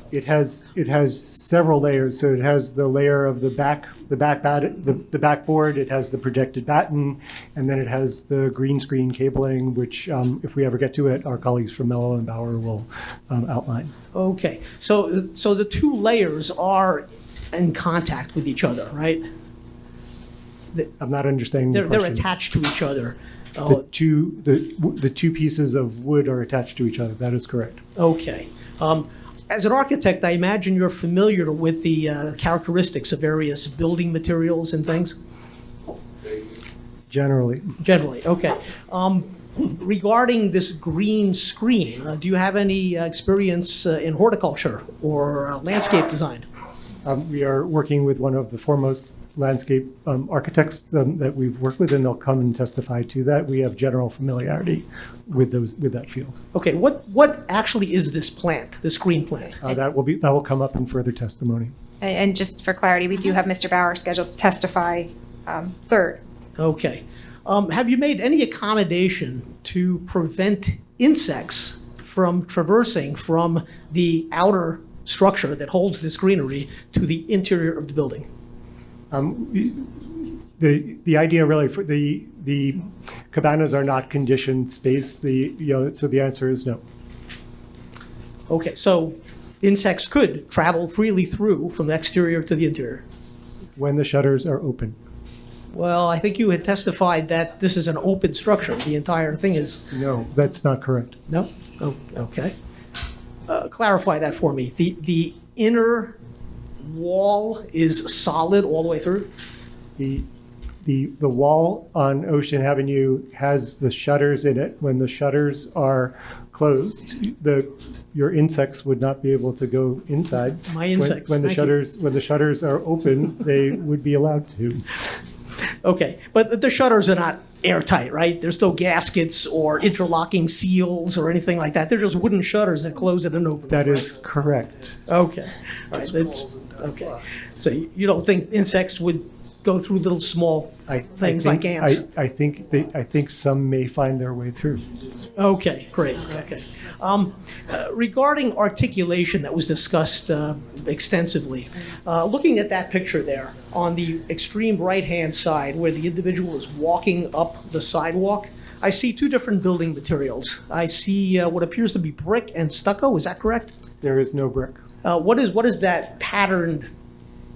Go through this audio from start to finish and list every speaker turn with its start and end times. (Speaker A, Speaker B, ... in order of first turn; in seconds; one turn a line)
Speaker A: 0.1-13.9
Speaker B: 14.1-19.2
Speaker A: 21.0-22.2
Speaker B: 21.7-23.8
Speaker A: 23.6-27.8
Speaker B: 27.9-35.1
Speaker A: 37.1-37.8
Speaker B: 37.8-46.5
Speaker A: 47.0-56.4
Speaker B: 56.5-59.6
Speaker A: 59.6-61.7
Speaker C: 62.0-66.2
Speaker B: 66.6-78.3
Speaker A: 79.1-80.0
Speaker A: 80.6-86.8
Speaker B: 88.5-93.0
Speaker A: 93.8-95.0
Speaker B: 95.7-99.9
Speaker A: 99.9-101.2
Speaker B: 101.3-102.5
Speaker B: 103.5-106.2
Speaker B: 106.8-109.3
Speaker A: 110.0-110.3
Speaker A: 110.8-124.8
Speaker B: 120.7-121.7
Speaker B: 125.8-134.2
Speaker A: 133.7-134.9
Speaker B: 135.1-142.0
Speaker A: 140.9-144.8
Speaker B: 145.3-163.7
Speaker A: 164.0-164.8
Speaker B: 165.0-166.9